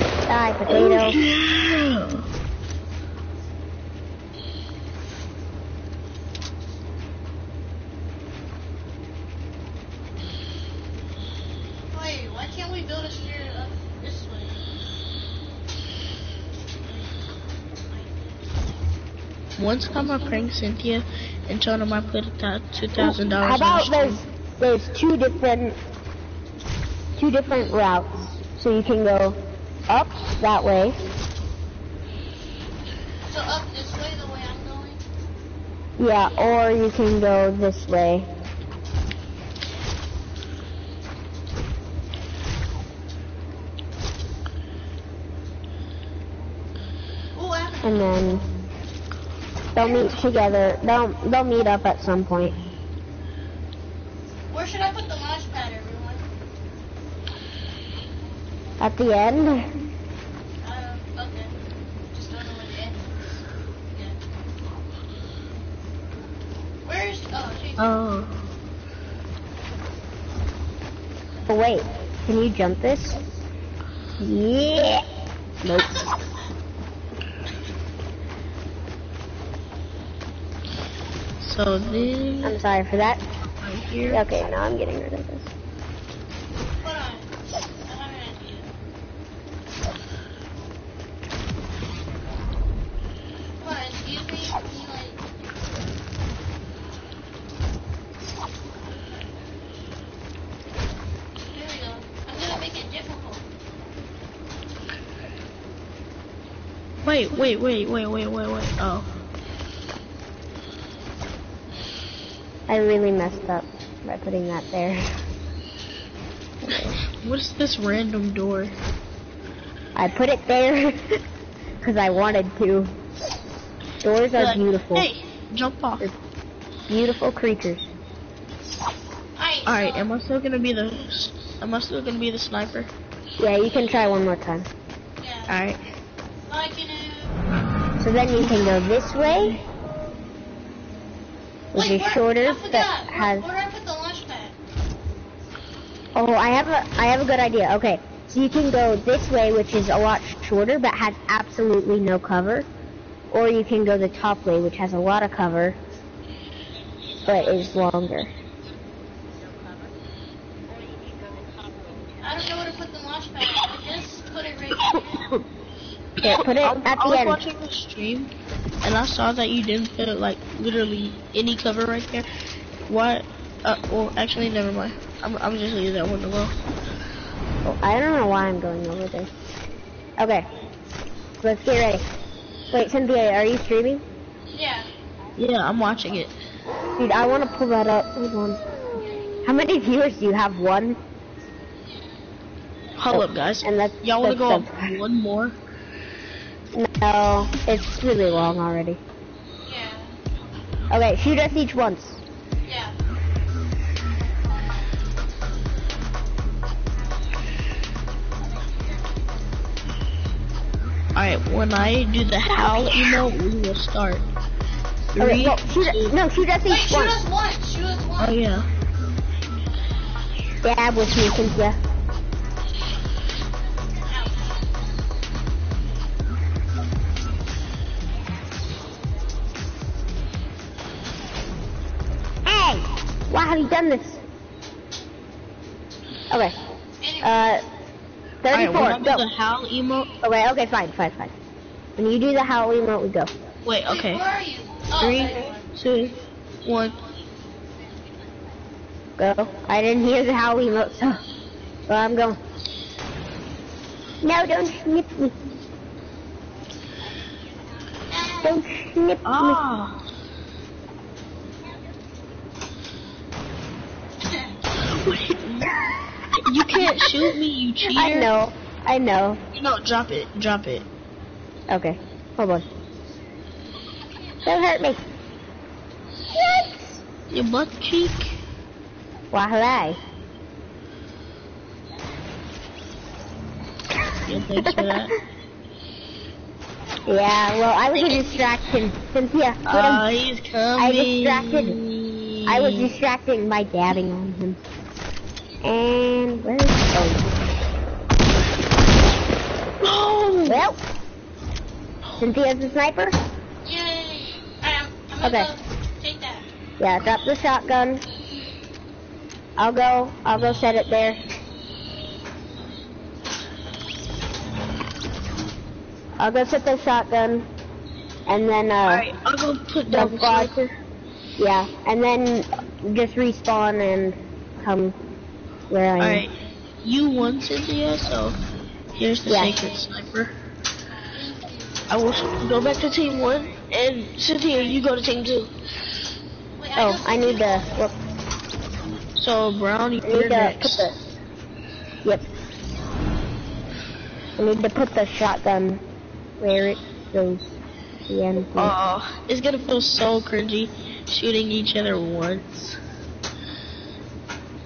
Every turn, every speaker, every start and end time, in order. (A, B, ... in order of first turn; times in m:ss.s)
0:00.2-0:01.2 A
0:00.7-0:02.3 B
0:11.9-0:14.6 C
0:16.8-0:17.1 C
0:17.8-0:18.4 C
0:19.6-0:24.2 B
0:23.0-0:25.8 A
0:27.2-0:29.4 A
0:29.9-0:31.0 A
0:33.2-0:35.0 C
0:36.0-0:38.3 A
0:47.3-0:48.4 C
0:47.8-0:48.4 A
0:49.7-0:52.5 A
0:49.8-0:50.2 C
0:54.5-0:56.2 C
0:58.8-0:59.7 A
1:00.6-1:01.5 C
1:02.1-1:04.2 C
1:06.8-1:08.0 C
1:07.8-1:08.3 B
1:11.5-1:13.2 A
1:14.2-1:15.0 A
1:15.6-1:16.1 A
1:21.4-1:22.6 B
1:22.4-1:23.2 A
1:23.5-1:24.2 B
1:24.1-1:25.5 A
1:26.8-1:27.3 C
1:27.8-1:28.7 C
1:33.6-1:35.2 C
1:41.5-1:43.4 C
1:47.0-1:49.1 B
1:52.7-1:55.1 A
1:56.6-1:56.9 A
1:57.0-1:58.7 B
2:00.0-2:01.2 A
2:01.8-2:02.9 A
2:04.0-2:05.1 A
2:04.3-2:06.1 B
2:06.9-2:07.8 A
2:09.4-2:10.1 C
2:09.6-2:12.9 B
2:13.4-2:14.7 A
2:15.2-2:15.6 C
2:15.5-2:15.8 B
2:16.5-2:17.3 C
2:18.0-2:19.6 A
2:21.7-2:23.4 A
2:21.7-2:24.6 C
2:26.1-2:32.7 A
2:33.3-2:35.8 A
2:37.2-2:38.3 A
2:42.2-2:45.3 C
2:44.8-2:45.4 B
2:46.2-2:52.2 B
2:46.2-2:47.4 A
2:52.9-2:56.6 B
2:57.6-2:59.3 A
3:00.2-3:00.4 A
3:01.4-3:02.0 A
3:02.7-3:04.0 A
3:04.5-3:04.9 C
3:05.4-3:06.3 B
3:07.0-3:08.6 A
3:09.0-3:09.4 C
3:09.4-3:11.0 A
3:13.0-3:15.6 B
3:13.1-3:14.9 A
3:16.7-3:19.0 A
3:19.6-3:20.2 C
3:20.9-3:22.2 A
3:22.6-3:23.0 C
3:28.5-3:28.9 C
3:31.1-3:34.2 B
3:32.5-3:33.2 A
3:35.1-3:36.1 B
3:35.2-3:37.2 A
3:36.7-3:38.4 C
3:38.2-3:38.7 B
3:40.6-3:41.8 A
3:44.0-3:44.6 C
3:52.4-3:54.2 A
3:57.0-3:57.3 C
3:57.2-3:57.6 A
3:58.4-3:59.2 A
3:58.5-4:00.1 B
4:00.2-4:01.3 A
4:02.0-4:03.3 A
4:03.6-4:04.2 B
4:03.9-4:05.6 C
4:05.0-4:07.0 B
4:09.2-4:11.2 A
4:11.9-4:12.4 A
4:14.2-4:15.3 A
4:18.1-4:18.6 C
4:18.4-4:19.6 A
4:19.2-4:20.0 B
4:24.3-4:24.8 C
4:24.8-4:25.7 B
4:26.4-4:28.3 B
4:26.7-4:27.2 A
4:27.9-4:29.4 A
4:29.5-4:30.9 B
4:31.7-4:32.6 A
4:34.4-4:35.0 A
4:36.4-4:37.0 A
4:37.3-4:38.4 B
4:39.3-4:40.0 A
4:44.1-4:45.1 B
4:44.1-4:45.1 A
4:47.1-4:50.0 A
4:48.0-4:48.5 C
4:49.7-4:52.9 B
4:50.8-4:51.8 A
4:52.5-4:54.6 A
4:55.6-4:57.3 A
4:59.8-5:00.6 B
5:00.5-5:00.8 A
5:02.2-5:03.2 A
5:03.6-5:06.5 C
5:05.2-5:05.5 A
5:06.8-5:08.0 A
5:09.6-5:11.2 A
5:16.2-5:17.5 A
5:18.3-5:19.0 A
5:18.8-5:20.7 B
5:19.9-5:20.5 A
5:21.4-5:25.0 A
5:25.7-5:26.2 A
5:26.0-5:28.4 B
5:28.9-5:30.3 B
5:29.3-5:29.5 A
5:29.3-5:30.0 C
5:30.9-5:32.4 C
5:31.9-5:35.5 B
5:36.6-5:37.7 C
5:36.8-5:38.0 A
5:39.2-5:40.9 B
5:40.0-5:41.0 A
5:44.4-5:45.8 A
5:46.4-5:47.5 A
5:48.1-5:48.7 A
5:48.6-5:52.8 B